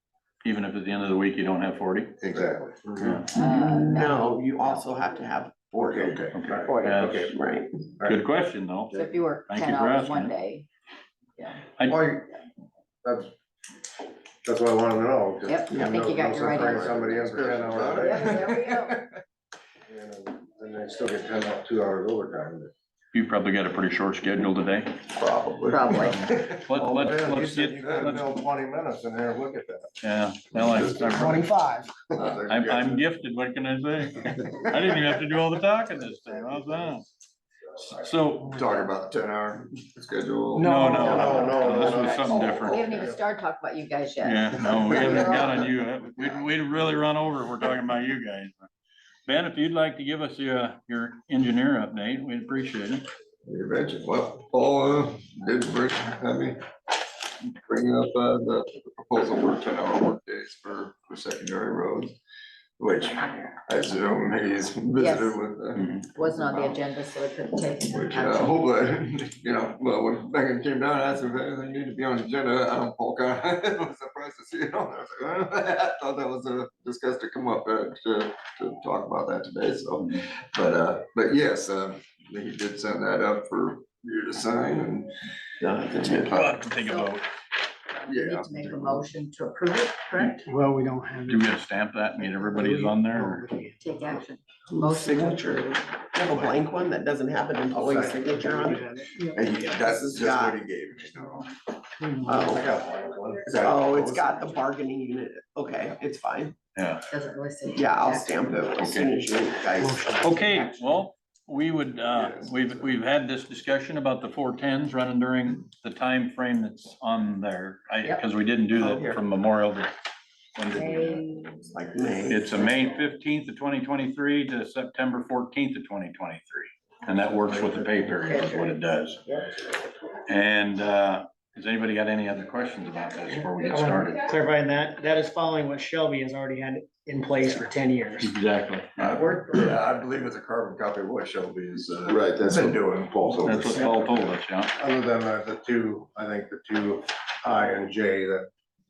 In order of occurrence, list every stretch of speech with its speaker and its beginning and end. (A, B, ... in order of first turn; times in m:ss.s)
0:00.4-0:02.2 A
0:02.2-0:02.6 B
0:02.2-0:03.2 C
0:03.0-0:03.3 A
0:03.3-0:06.4 D
0:03.4-0:04.8 E
0:06.0-0:07.4 C
0:06.3-0:07.4 A
0:07.3-0:07.8 D
0:08.1-0:10.3 A
0:08.9-0:10.7 E
0:11.4-0:11.6 E
0:11.9-0:12.3 C
0:13.0-0:13.3 C
0:14.4-0:18.5 C
0:15.4-0:16.9 E
0:15.7-0:16.0 D
0:16.4-0:19.2 B
0:17.9-0:19.0 E
0:19.9-0:22.7 C
0:23.1-0:25.0 A
0:25.2-0:25.8 B
0:25.4-0:26.2 D
0:25.7-0:26.3 E
0:26.0-0:28.4 A
0:26.7-0:29.9 C
0:30.0-0:31.5 A
0:30.5-0:31.4 B
0:31.0-0:31.9 F
0:32.1-0:33.0 B
0:32.5-0:37.1 A
0:37.8-0:38.6 A
0:38.4-0:41.6 B
0:40.6-0:41.9 F
0:40.6-0:43.0 A
0:41.0-0:43.2 C
0:41.5-0:45.6 E
0:44.2-0:48.7 A
0:49.3-0:53.1 A
0:53.5-0:56.6 B
0:57.5-1:02.2 B
1:02.8-1:06.8 B
1:05.0-1:05.4 E
1:05.8-1:06.0 A
1:06.2-1:08.6 E
1:07.9-1:25.1 B
1:25.6-1:26.3 D
1:26.0-1:26.6 B
1:26.3-1:27.2 A
1:26.8-1:27.2 E
1:27.9-1:30.5 E
1:28.1-1:29.1 B
1:30.5-1:31.5 F
1:31.3-1:33.5 A
1:32.3-1:33.9 F
1:33.8-1:35.8 E
1:34.7-1:39.0 D
1:38.2-1:39.0 F
1:39.3-1:41.5 B
1:39.9-1:40.6 D
1:42.0-1:42.4 F
1:42.2-1:42.7 D
1:42.3-1:44.4 C
1:43.5-1:46.6 D
1:46.8-1:47.0 A
1:47.1-1:48.5 E
1:47.7-1:50.3 D
1:48.8-1:49.2 A
1:49.8-1:50.7 F
1:50.2-1:59.9 A
1:52.1-1:52.6 B
1:58.8-1:59.2 D
2:00.6-2:01.2 A
2:00.7-2:01.7 E
2:01.7-2:02.6 D
2:02.3-2:09.2 A
2:08.2-2:08.7 E
2:10.3-2:14.3 A
2:13.7-2:18.3 F
2:18.2-2:19.3 A
2:19.0-2:23.9 B
2:22.1-2:28.5 C
2:23.4-2:24.7 A